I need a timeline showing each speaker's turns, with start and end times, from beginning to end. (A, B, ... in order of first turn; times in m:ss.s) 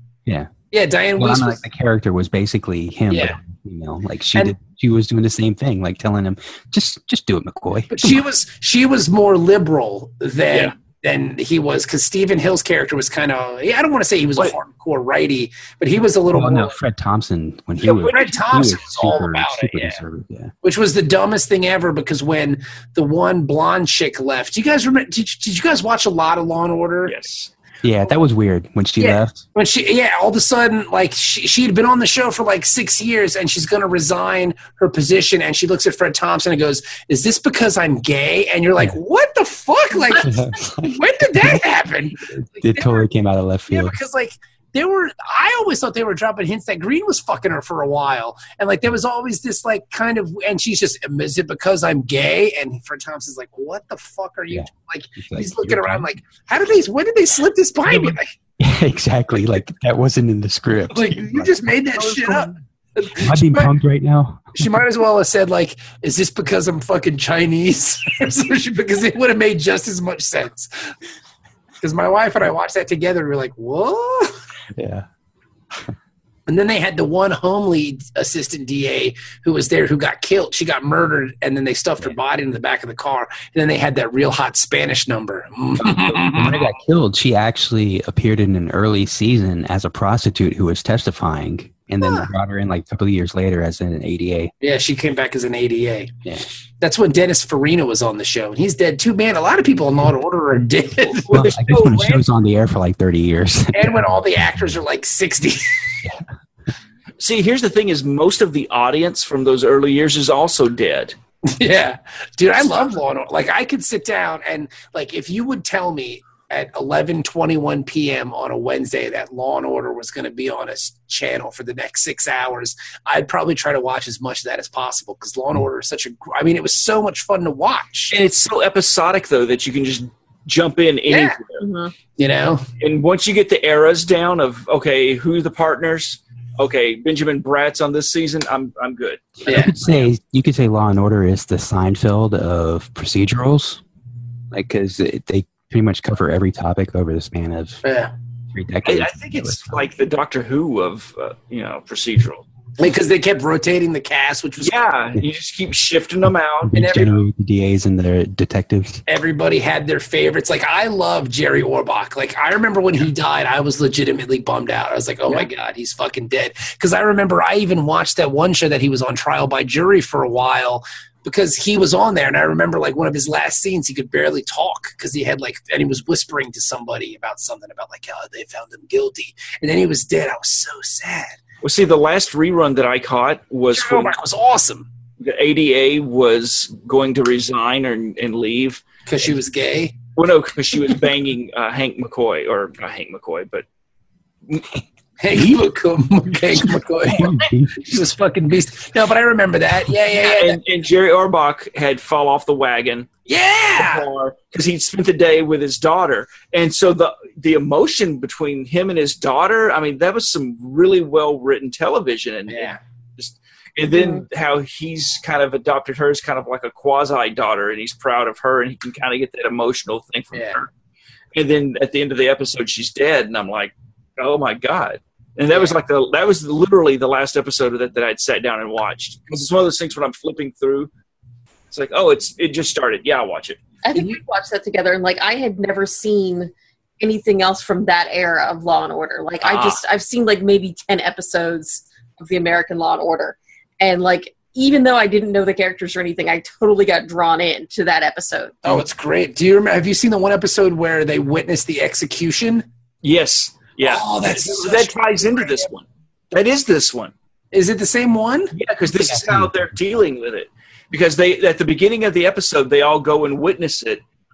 0:00.7-0:01.6 A
0:01.2-0:08.2 B
0:03.1-0:03.4 A
0:07.9-0:16.8 A
0:16.3-0:20.5 B
0:17.8-0:20.0 A
0:17.8-0:18.3 C
0:20.6-0:27.1 A
0:27.0-0:27.5 C
0:27.8-0:29.4 B
0:29.0-0:43.1 A
0:40.1-0:41.6 B
0:42.3-0:44.0 B
0:43.7-0:58.3 A
0:55.2-0:56.0 B
0:58.6-1:02.5 B
1:00.9-1:03.7 A
1:03.2-1:04.7 B
1:04.5-1:10.9 A
1:11.8-1:14.4 A
1:14.7-1:15.0 B
1:16.5-1:26.6 A
1:25.9-1:34.5 B
1:32.0-1:32.3 A
1:34.6-1:36.1 A
1:36.8-1:41.4 A
1:41.1-1:42.2 C
1:41.3-1:44.3 B
1:43.7-1:46.0 A
1:47.2-1:51.1 C
1:51.5-2:08.2 A
2:08.1-2:11.6 C
2:11.1-2:11.4 A
2:11.6-2:11.9 D
2:12.2-2:12.6 A
2:12.8-2:20.1 C
2:19.4-2:23.8 B
2:19.4-2:19.7 A
2:24.5-2:27.8 B
2:27.8-2:28.1 A
2:28.5-2:29.8 B
2:28.8-2:32.4 C
2:32.8-2:34.8 A
2:34.6-2:36.8 C
2:36.6-2:39.0 B
2:36.7-2:37.1 A
2:39.1-3:01.4 A
3:01.6-3:04.2 C
3:03.7-3:04.9 A
3:05.2-3:08.8 C
3:09.0-3:10.0 A
3:10.2-3:13.6 C
3:15.2-3:20.6 A
3:16.6-3:18.0 B
3:20.2-3:23.1 C
3:23.3-3:24.1 A
3:23.8-3:40.7 C
3:32.5-3:32.8 A
3:34.0-3:34.2 D
3:40.3-3:40.6 A
3:41.3-3:50.9 C
3:51.7-3:53.6 C
3:53.8-4:08.6 D
3:59.4-3:59.8 C
4:08.6-4:12.6 A
4:13.0-4:17.1 C
4:13.8-4:15.7 A
4:17.5-4:18.5 A
4:18.5-4:24.0 C
4:19.2-4:19.5 B